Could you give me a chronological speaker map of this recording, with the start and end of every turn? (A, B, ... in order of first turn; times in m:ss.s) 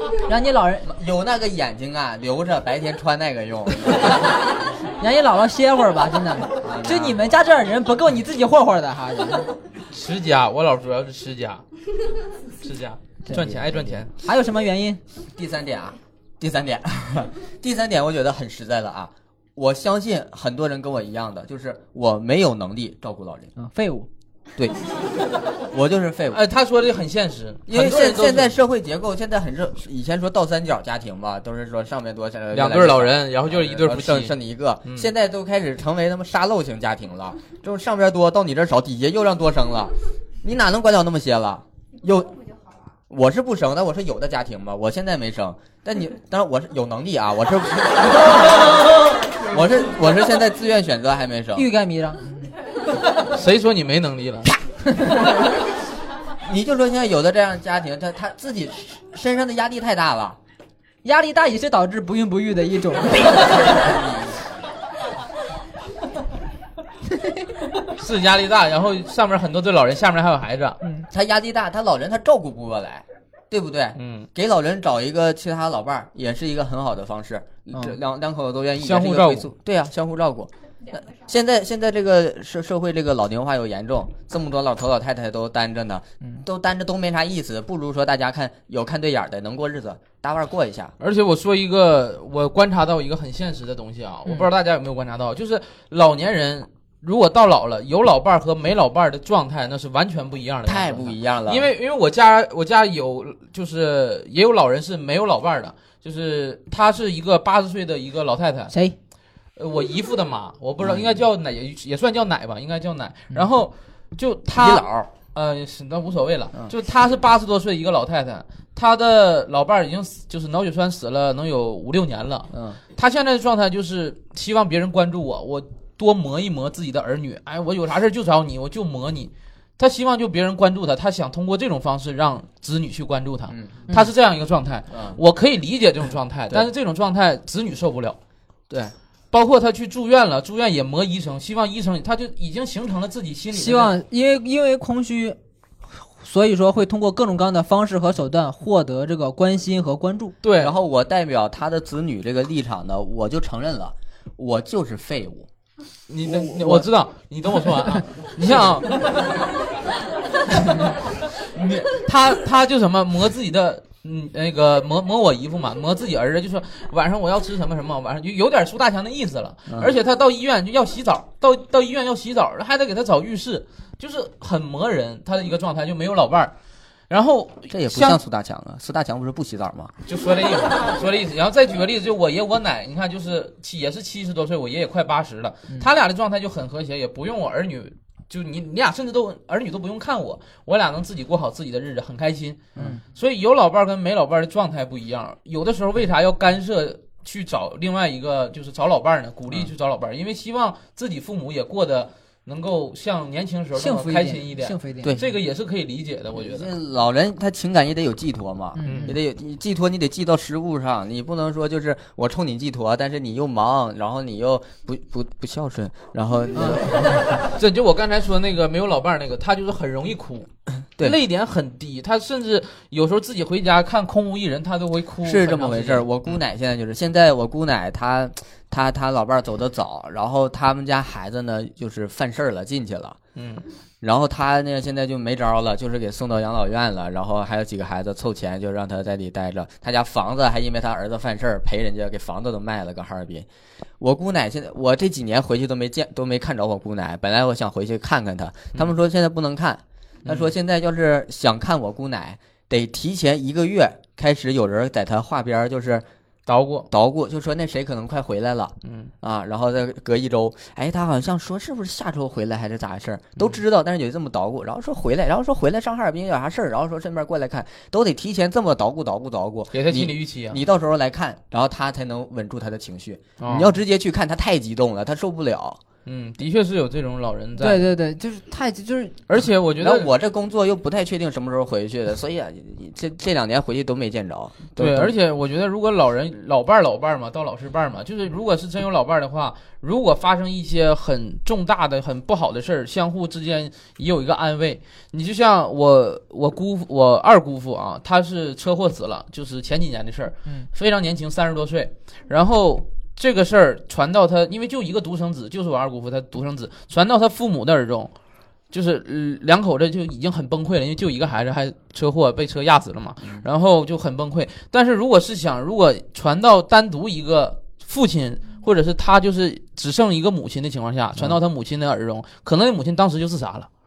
0:00.3-0:00.9 A
0:00.9-0:04.2 B
0:05.0-0:09.5 A
0:06.6-0:07.3 B
0:09.9-0:11.6 C
0:12.6-0:14.1 C
0:13.3-0:13.5 A
0:13.3-0:14.0 B
0:14.2-0:15.0 A
0:15.3-0:23.5 B
0:23.6-0:24.1 A
0:25.7-0:26.4 B
0:26.3-0:28.6 C
0:27.7-0:42.3 B
0:32.5-0:35.1 C
0:43.1-0:51.7 B
0:51.5-0:52.5 A
0:53.2-0:54.5 C
0:55.0-0:55.4 A
0:56.4-1:00.4 B
1:01.0-1:03.8 A
1:03.6-1:04.4 B
1:07.9-1:10.8 C
1:11.1-1:30.9 B
1:14.0-1:14.3 C
1:18.8-1:19.5 C
1:31.0-1:48.7 C
1:40.6-1:41.7 B
1:48.7-1:49.0 A
1:49.6-2:18.2 C
1:50.8-1:51.2 B
1:54.5-1:55.1 B
2:02.5-2:02.8 B
2:14.9-2:15.2 B
2:18.7-2:18.9 B
2:19.3-2:24.0 C
2:23.5-2:25.4 A
2:26.0-2:30.3 A
2:30.4-2:30.8 C
2:30.6-2:35.5 B
2:36.1-2:39.2 C
2:36.2-2:36.8 B
2:38.4-2:38.7 B
2:41.6-2:41.8 B
2:41.6-2:56.5 C
2:49.7-2:50.0 B
2:57.1-2:58.2 C
2:57.7-2:59.9 B
3:00.1-3:26.7 C
3:23.8-3:25.2 A
3:26.3-3:37.4 B
3:28.8-3:29.1 A
3:28.8-3:29.1 C
3:36.6-3:36.8 A
3:37.5-3:40.5 C
3:41.0-3:46.1 C
3:45.2-3:53.2 B
3:53.4-3:53.6 C
3:54.0-4:03.5 B
4:04.0-4:16.0 B
4:16.5-4:16.9 C
4:16.9-4:35.8 B
4:18.8-4:19.1 C
4:29.7-4:30.6 C
4:33.4-4:33.7 C
4:36.0-4:37.8 C
4:37.6-4:39.2 A
4:39.3-4:40.1 C
4:39.8-4:45.1 B
4:44.8-5:08.1 C
5:08.7-5:23.7 C